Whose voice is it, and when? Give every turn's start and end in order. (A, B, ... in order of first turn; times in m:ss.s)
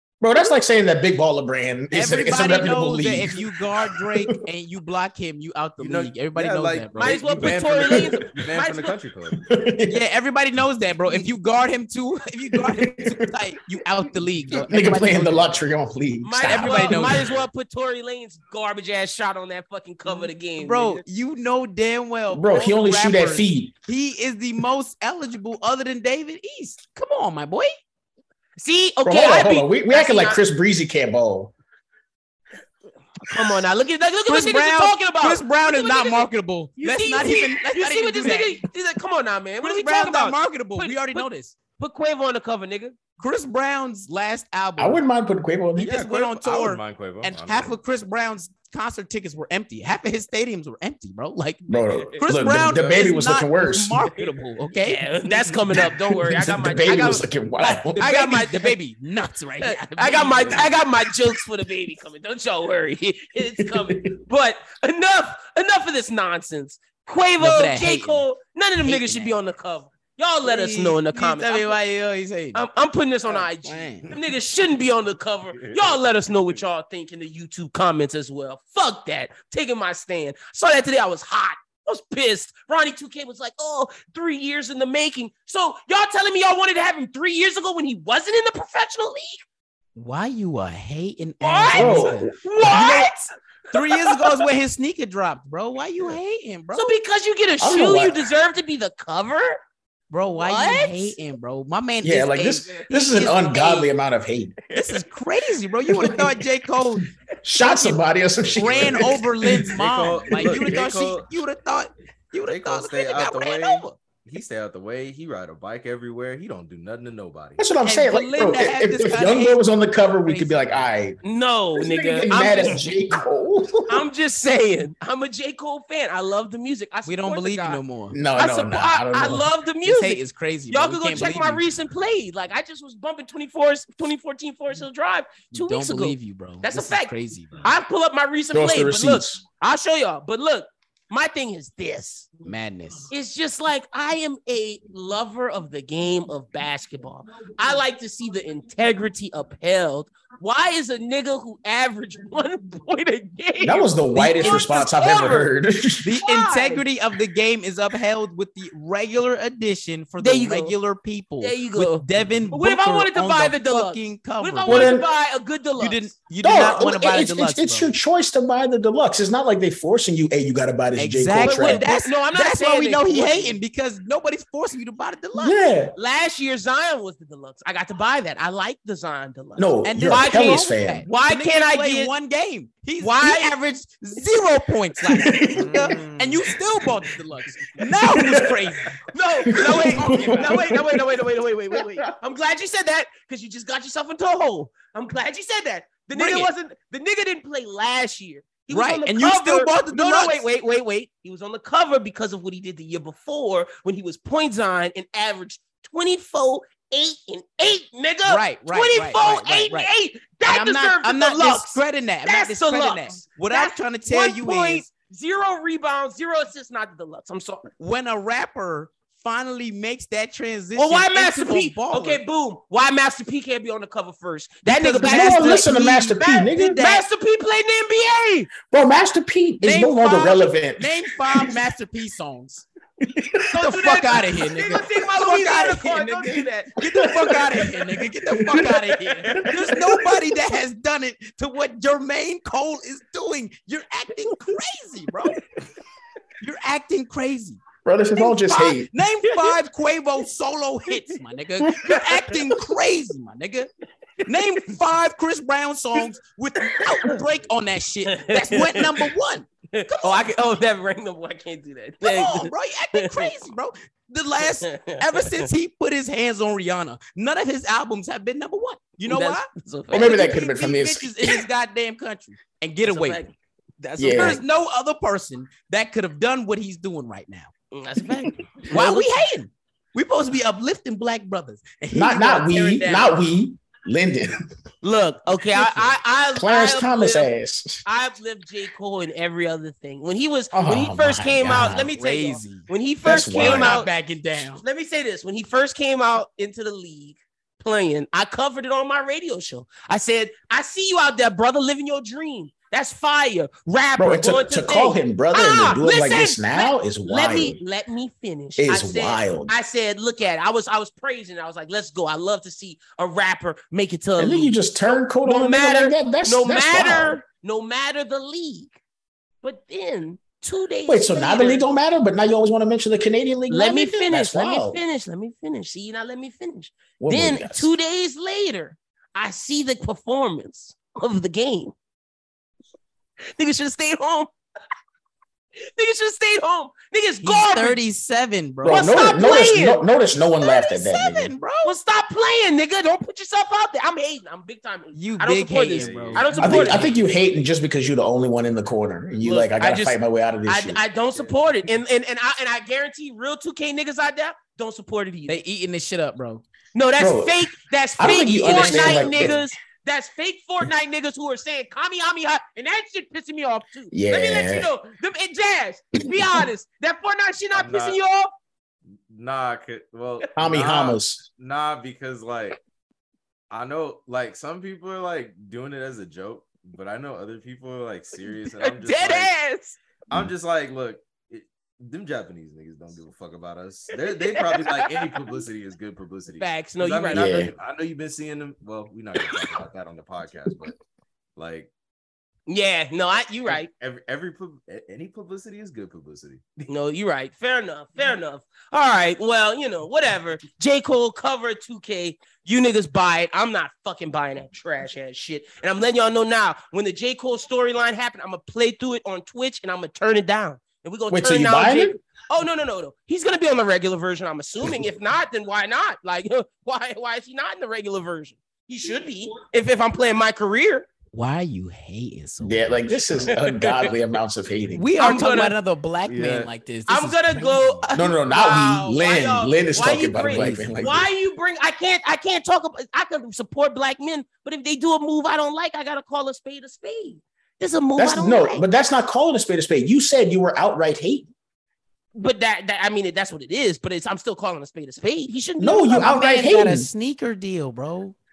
0:00.2-0:04.3 A
0:01.9-0:07.3 B
0:05.8-0:09.4 C
0:07.0-0:09.0 D
0:09.5-0:10.0 A
0:09.9-0:15.6 B
0:12.5-0:13.4 A
0:14.6-0:17.2 A
0:16.2-0:21.0 D
0:16.4-0:17.2 B
0:20.6-0:27.8 B
0:22.3-0:23.7 A
0:28.6-0:30.4 D
0:29.0-0:31.5 A
0:33.2-0:36.3 D
0:34.3-0:38.6 B
0:36.8-0:41.3 D
0:39.6-0:41.5 B
0:41.8-0:43.0 D
0:43.2-0:45.0 B
0:44.8-0:46.0 A
0:45.8-0:51.6 B
0:45.8-0:47.8 C
0:51.7-0:54.0 A
0:52.2-0:55.6 B
0:54.8-0:58.8 D
0:55.7-0:58.1 A
0:58.0-1:00.8 B
0:59.6-1:11.8 D
1:03.6-1:04.2 A
1:07.4-1:08.2 B
1:08.8-1:09.4 B
1:10.4-1:12.6 B
1:12.6-1:29.4 D
1:13.3-1:14.1 B
1:15.5-1:16.6 C
1:30.0-1:33.1 B
1:31.4-1:33.2 D
1:31.7-1:32.3 A
1:33.7-1:36.9 B
1:33.8-1:34.4 D
1:36.7-1:39.6 D
1:37.6-1:38.2 A
1:40.1-1:43.9 B
1:40.4-1:41.2 D
1:42.0-1:44.6 A
1:44.7-1:47.0 B
1:46.0-1:46.3 A
1:47.4-1:49.7 A
1:47.6-1:48.0 B
1:48.4-1:49.0 C
1:48.6-1:54.0 B
1:49.7-1:51.3 C
1:52.5-1:57.6 C
1:57.6-2:01.2 A
1:57.8-1:59.6 B
2:00.2-2:00.8 B
2:01.2-2:02.9 D
2:01.8-2:04.1 A
2:03.9-2:07.8 D
2:07.1-2:08.2 B
2:08.1-2:09.5 A
2:08.4-2:22.3 D
2:09.8-2:11.6 B
2:15.5-2:17.6 B
2:18.5-2:19.4 A
2:22.4-2:23.1 B
2:23.1-2:35.5 D
2:33.6-2:36.2 A
2:34.2-2:34.6 B
2:36.0-2:45.0 B
2:36.2-2:36.8 D
2:40.2-2:40.7 D
2:41.4-2:46.1 D
2:44.7-2:45.1 A
2:45.8-2:47.9 B
2:46.4-2:51.8 A
2:51.0-2:55.6 B
2:51.4-2:53.6 D
2:55.4-2:55.9 A
2:56.0-3:02.1 D
2:59.6-3:01.0 A
2:59.8-3:09.0 B
3:03.0-3:03.5 D
3:05.1-3:06.2 A
3:07.8-3:08.6 A
3:09.1-3:37.7 D
3:09.5-3:11.0 A
3:09.5-3:10.7 B
3:16.1-3:16.5 B
3:18.7-3:20.4 B
3:28.3-3:29.9 B
3:30.4-3:34.9 B
3:37.8-3:42.2 B
3:40.8-3:48.5 D
3:44.6-3:47.0 B
3:45.0-3:46.9 A
3:48.7-3:51.6 A
3:49.6-3:52.7 B
3:53.0-3:53.5 A
3:53.5-3:56.8 D
3:53.6-4:05.4 B
3:57.0-3:58.7 A
3:59.3-4:00.1 A
4:06.4-4:07.6 B
4:07.8-4:08.9 A
4:08.2-4:13.7 B
4:14.2-4:20.3 B
4:18.1-4:19.1 D
4:19.7-4:23.3 D
4:22.0-4:29.5 B
4:24.6-4:25.5 D
4:29.1-4:30.3 D
4:29.9-4:31.4 A
4:30.0-4:33.3 B
4:32.8-4:33.3 D
4:33.8-4:37.5 B
4:34.0-4:34.4 A
4:37.7-4:39.1 D
4:38.7-4:43.2 B
4:41.9-4:44.4 A
4:44.8-4:47.3 D
4:45.6-4:45.9 B
4:46.3-4:47.8 A
4:47.8-4:53.9 D
4:50.5-4:51.9 A
4:51.9-4:52.7 B
4:53.0-4:53.8 A
4:53.3-4:54.6 B
4:54.5-5:18.8 D
5:04.0-5:07.6 A
5:08.6-5:09.5 A
5:14.2-5:17.2 A
5:19.4-5:21.7 D
5:20.9-5:24.8 A
5:23.5-5:31.7 D
5:27.0-5:27.7 A
5:33.4-5:34.3 D
5:35.6-5:37.8 D
5:37.2-5:39.0 B
5:38.6-5:39.8 D
5:38.6-5:41.3 A
5:40.4-5:41.8 B
5:41.6-5:46.9 D
5:44.9-5:46.9 B
5:45.7-5:47.4 C
5:46.4-5:50.8 A
5:49.2-5:55.4 D
5:55.3-5:56.4 B
5:56.7-6:08.3 D
5:57.0-5:59.4 A
5:58.4-5:59.3 B
6:03.9-6:04.7 A
6:07.5-6:08.0 C
6:09.1-6:12.6 C
6:10.4-6:11.2 A
6:13.5-6:19.3 C
6:18.4-6:19.8 D
6:20.1-6:30.7 C
6:23.9-6:25.2 D
6:26.4-6:27.4 D
6:27.1-6:27.5 A
6:29.2-6:29.6 D
6:31.4-6:31.7 C
6:32.5-6:33.7 D
6:33.5-6:36.4 C
6:36.6-7:00.9 D
6:51.1-6:52.0 A
7:01.1-7:03.2 B
7:02.4-7:04.9 A
7:03.3-7:03.9 D
7:04.7-7:08.1 B
7:05.0-7:05.6 D
7:06.0-7:06.5 C
7:06.9-7:18.6 D
7:07.9-7:11.1 A
7:10.3-7:10.9 B
7:18.0-7:21.3 A
7:22.2-7:26.1 D
7:25.6-7:26.9 A
7:25.9-7:28.2 B